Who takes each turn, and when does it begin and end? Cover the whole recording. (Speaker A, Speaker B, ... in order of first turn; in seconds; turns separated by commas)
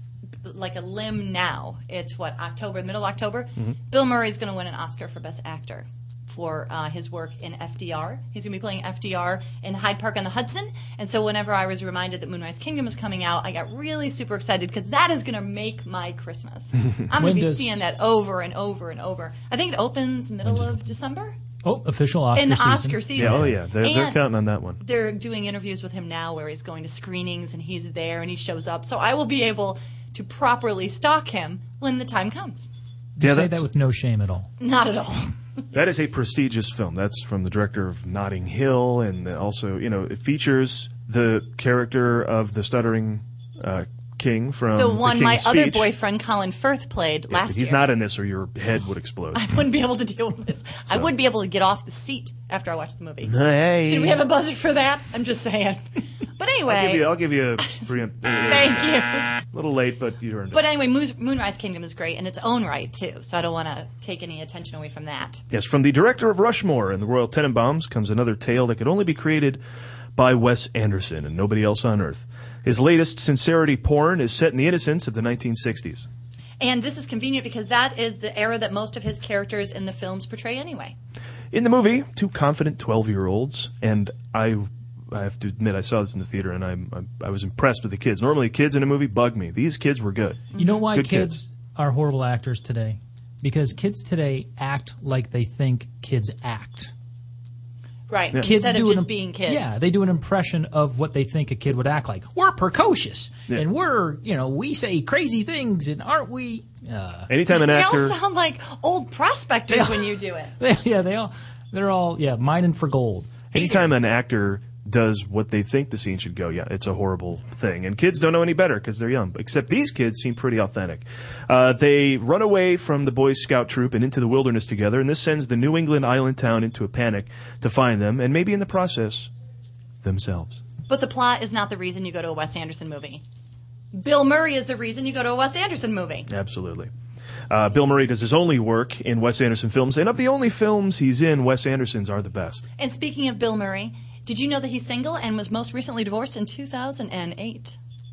Speaker A: 0.4-21.4, Speaker B: 17.1-17.8, Speaker B: 20.4-20.8, Speaker B: 21.6-23.6, Speaker A: 22.3-24.2, Speaker C: 23.2-24.8, Speaker A: 24.8-32.7, Speaker B: 33.1-34.5, Speaker C: 33.2-33.6, Speaker A: 34.6-35.3, Speaker C: 35.7-45.9, Speaker A: 44.7-47.9, Speaker C: 47.3-49.4, Speaker A: 49.3-55.8, Speaker C: 53.2-54.2, Speaker A: 56.4-57.1, Speaker C: 56.7-59.0, Speaker A: 58.4-59.3, Speaker C: 59.5-60.6, Speaker A: 60.5-65.4, Speaker C: 65.5-69.6, Speaker C: 70.2-76.1, Speaker A: 76.6-81.0, Speaker C: 81.5-91.4, Speaker A: 90.5-90.9, Speaker B: 90.6-96.9, Speaker A: 98.1-99.8, Speaker B: 98.4-107.3, Speaker C: 107.3-108.2, Speaker A: 107.5-110.5, Speaker B: 109.7-113.5, Speaker C: 113.5-129.3, Speaker C: 130.0-130.6, Speaker A: 130.9-133.2, Speaker A: 133.9-136.3, Speaker C: 136.3-136.9, Speaker C: 137.5-142.6, Speaker A: 142.8-147.8